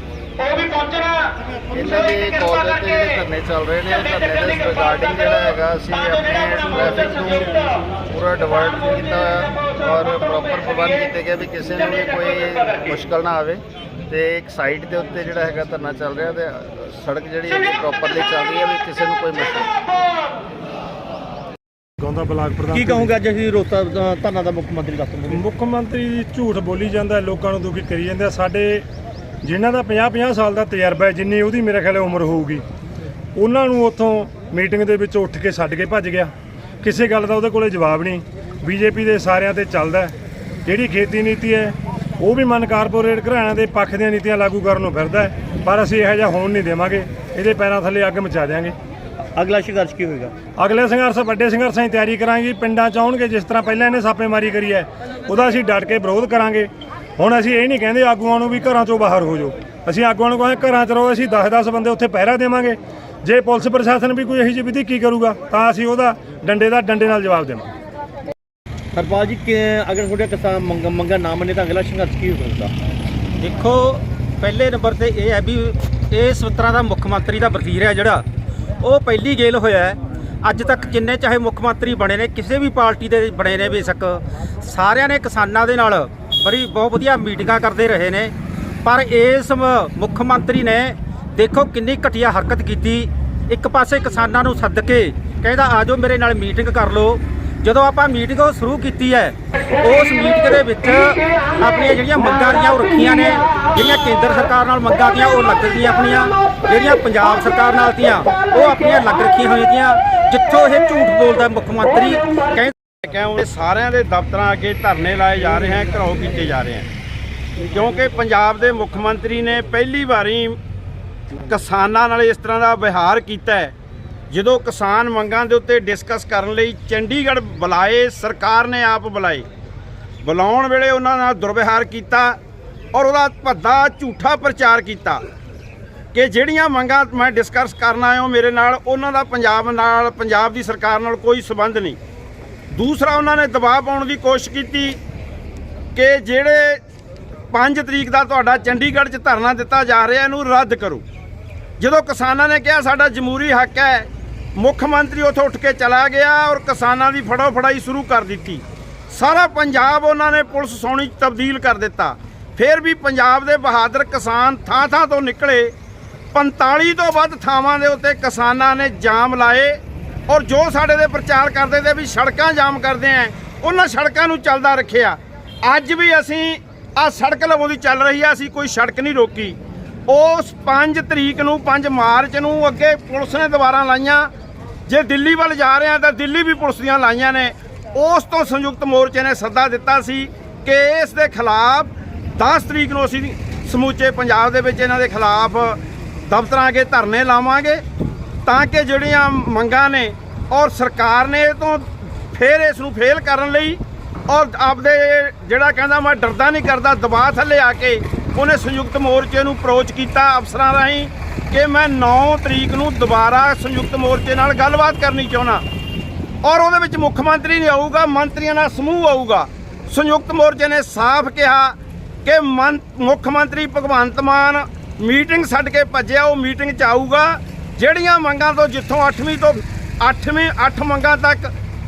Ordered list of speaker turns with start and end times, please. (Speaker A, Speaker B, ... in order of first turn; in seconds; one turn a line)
Speaker A: 1.7-19.7
Speaker B: 22.0-23.1
Speaker C: 22.7-25.4
Speaker B: 25.3-28.9
Speaker B: 29.4-32.6
Speaker B: 33.4-40.1
Speaker B: 40.6-48.8
Speaker C: 49.4-50.3
Speaker B: 50.6-67.7
Speaker C: 68.9-72.7
Speaker D: 73.4-78.2
Speaker D: 78.8-112.7
Speaker E: 113.0-116.9
Speaker E: 117.7-120.6
Speaker E: 121.5-123.7
Speaker E: 124.3-129.5
Speaker E: 130.2-132.4
Speaker E: 132.9-135.2
Speaker E: 136.1-142.0
Speaker E: 142.7-145.0
Speaker E: 145.9-146.8
Speaker E: 147.5-151.0
Speaker E: 151.8-165.7
Speaker E: 166.3-184.3
Speaker E: 184.9-197.8
Speaker E: 198.4-215.6
Speaker E: 216.4-231.5